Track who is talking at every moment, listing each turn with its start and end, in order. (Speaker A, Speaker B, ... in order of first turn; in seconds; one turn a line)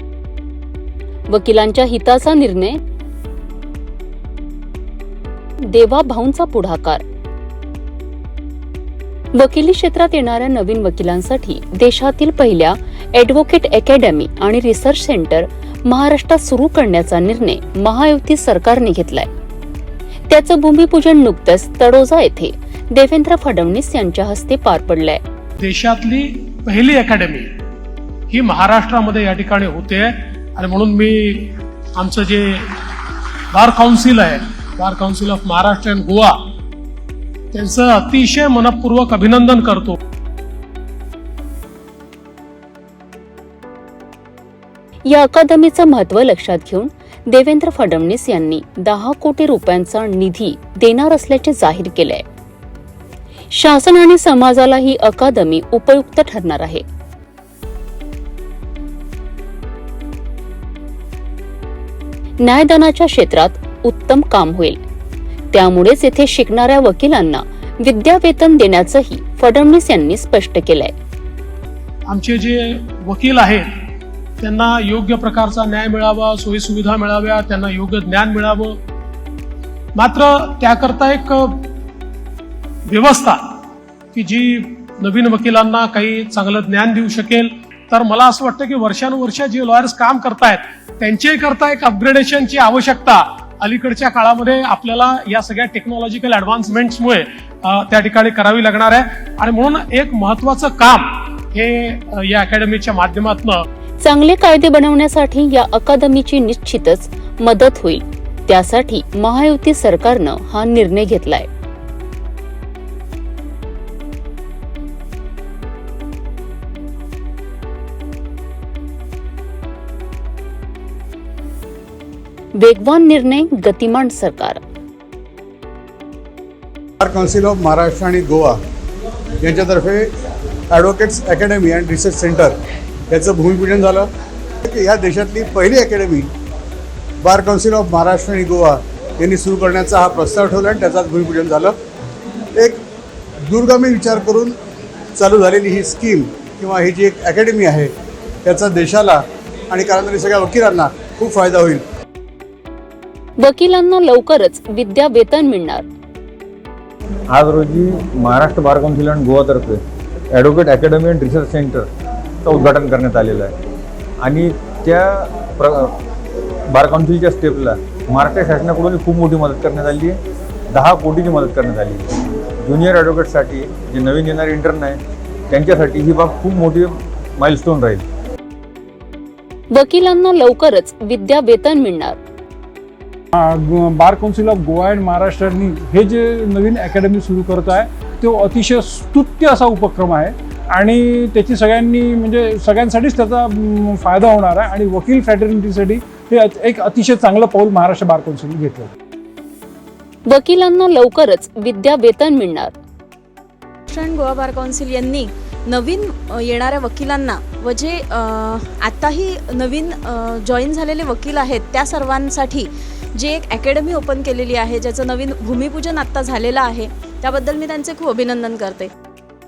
Speaker A: 1.3-2.8
Speaker A: 5.6-7.0
Speaker A: 9.3-19.3
Speaker A: 20.3-25.2
Speaker B: 25.6-27.5
Speaker B: 28.3-36.4
Speaker B: 37.5-40.0
Speaker A: 45.0-52.2
Speaker A: 53.5-56.8
Speaker A: 62.4-64.8
Speaker A: 65.5-70.9
Speaker B: 72.1-73.7
Speaker B: 74.4-78.7
Speaker B: 80.0-81.7
Speaker B: 82.9-83.6
Speaker B: 84.1-103.6
Speaker A: 104.0-111.5
Speaker A: 122.5-124.6
Speaker C: 127.0-128.6
Speaker C: 129.4-130.1
Speaker C: 130.7-132.5
Speaker C: 133.1-134.1
Speaker C: 134.6-136.3
Speaker C: 137.2-141.7
Speaker C: 143.5-144.5
Speaker C: 145.2-147.9
Speaker C: 148.4-151.8
Speaker A: 153.4-155.8
Speaker D: 157.3-159.8
Speaker D: 160.3-161.9
Speaker D: 162.4-163.5
Speaker D: 164.2-166.0
Speaker D: 166.7-170.2
Speaker D: 170.7-175.0
Speaker D: 175.5-178.0
Speaker A: 179.7-182.2
Speaker E: 183.3-198.9
Speaker A: 200.3-202.7
Speaker F: 203.9-218.9